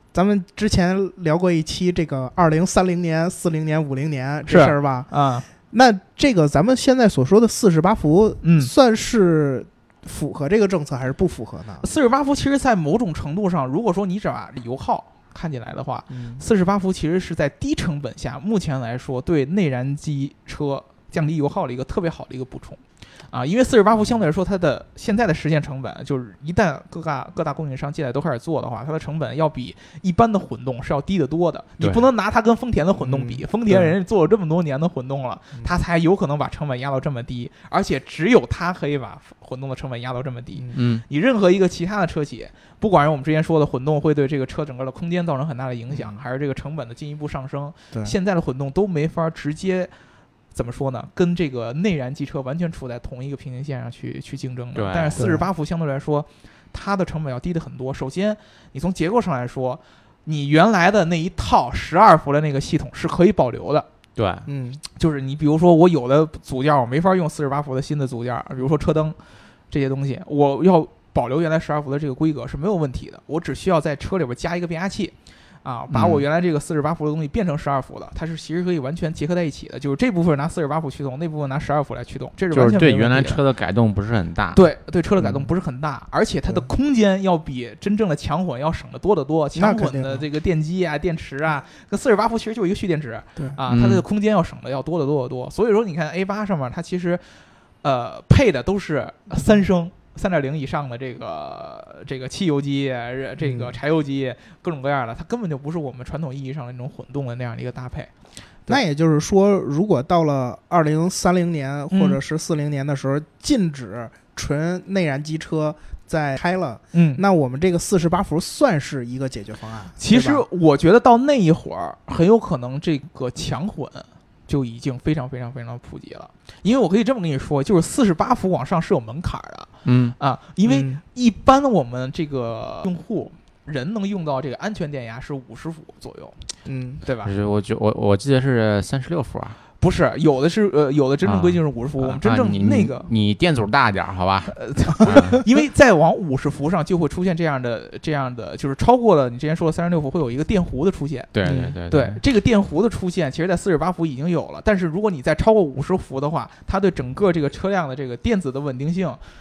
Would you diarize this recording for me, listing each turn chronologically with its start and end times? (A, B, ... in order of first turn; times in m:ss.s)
0:00.1-0:05.1 A
0:04.5-0:05.5 B
0:05.7-0:11.9 A
0:08.4-0:08.7 B
0:11.8-0:49.9 B
0:16.1-0:16.4 A
0:33.0-0:33.9 A
0:40.7-0:41.0 C
0:45.9-0:46.2 A
0:50.5-1:03.9 B
0:54.8-0:55.2 C
0:55.2-0:55.5 A
1:04.2-1:04.5 C
1:04.5-1:04.8 A
1:05.0-1:09.2 B
1:09.7-1:23.4 B
1:15.9-1:16.2 C
1:22.5-1:24.6 C
1:24.5-1:37.2 B
1:29.6-1:30.2 A
1:33.7-1:34.0 C
1:37.8-1:48.1 B
1:43.4-1:43.8 A
1:48.7-2:00.4 A
1:51.9-1:52.2 B
1:56.9-1:57.2 B
2:00.0-2:16.4 B
2:09.8-2:10.2 C
2:10.6-2:11.0 A
2:16.7-2:17.0 A
2:17.0-2:17.3 B
2:17.2-2:19.6 C
2:19.8-2:23.1 B
2:21.2-2:25.4 C
2:24.5-2:31.4 B
2:31.3-2:32.2 C
2:31.4-2:31.8 A
2:31.9-2:39.2 B